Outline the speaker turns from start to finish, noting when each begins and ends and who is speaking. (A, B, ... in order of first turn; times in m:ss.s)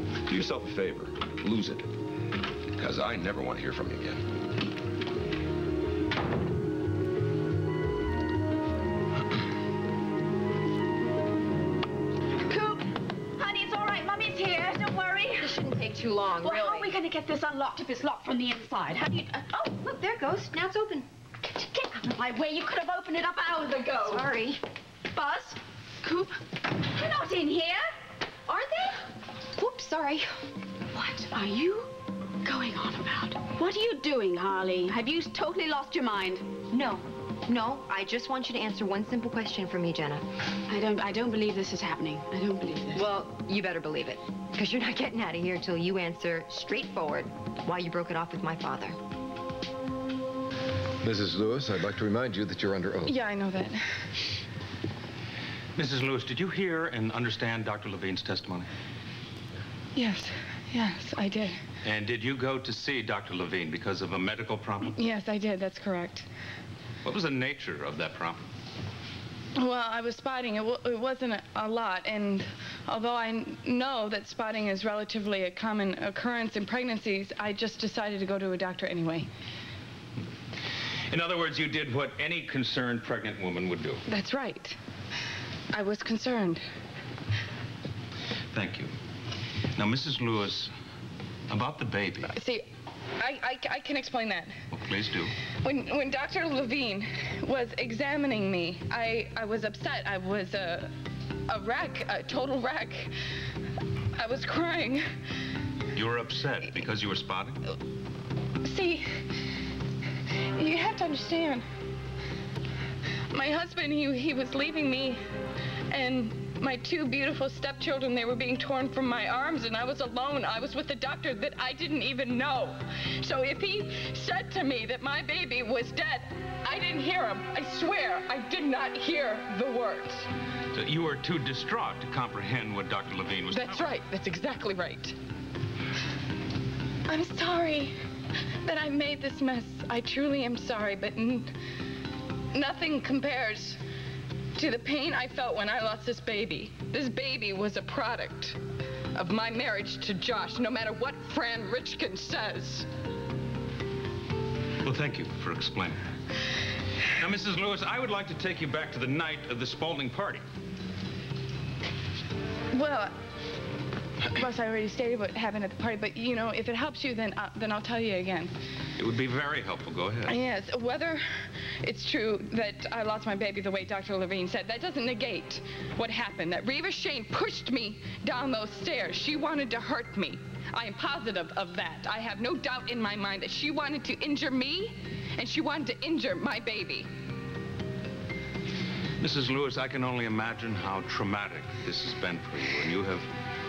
0:00.3-0:01.9 A
0:02.8-0:04.3 A
0:12.4-0:15.6 B
0:15.4-0:17.0 C
0:16.4-0:19.7 B
0:19.6-0:21.1 C
0:21.5-0:24.4 B
0:24.0-0:24.6 C
0:25.1-0:27.9 B
0:28.5-0:29.0 C
0:29.6-0:30.3 C
0:31.0-0:31.9 B
0:32.4-0:36.5 B
0:36.7-0:40.3 C
0:40.7-0:43.1 B
0:43.0-0:49.0 C
0:51.0-0:53.2 D
0:53.1-0:54.0 E
0:55.8-0:58.7 F
1:00.0-1:01.6 E
1:01.8-1:05.0 F
1:05.0-1:06.3 E
1:07.0-1:08.4 F
1:09.6-1:19.3 E
1:21.1-1:24.0 F
1:24.1-1:24.8 E
1:25.7-1:26.6 E
1:28.5-1:28.9 F
1:29.8-1:30.7 F
1:31.5-1:32.3 F
1:32.3-1:32.7 E
1:33.2-1:34.6 E
1:34.7-1:35.3 F
1:35.6-1:40.9 E
1:41.5-1:43.1 E
1:44.2-1:45.0 E
1:46.0-1:47.6 F
1:48.6-1:49.1 E
1:50.6-1:51.6 E
1:53.3-1:55.2 E
1:55.9-2:10.3 E
2:10.7-2:14.0 F
2:13.5-2:15.2 E
2:17.1-2:17.9 E
2:18.6-2:21.5 E
2:22.5-2:23.8 E
2:24.6-2:28.6 E
2:29.2-2:32.9 E
2:34.8-2:36.0 F
2:37.2-2:40.4 F
2:42.7-2:43.2 E
2:44.3-2:48.5 E
2:49.0-2:50.4 F
2:50.3-3:07.1 E
3:09.2-3:13.3 F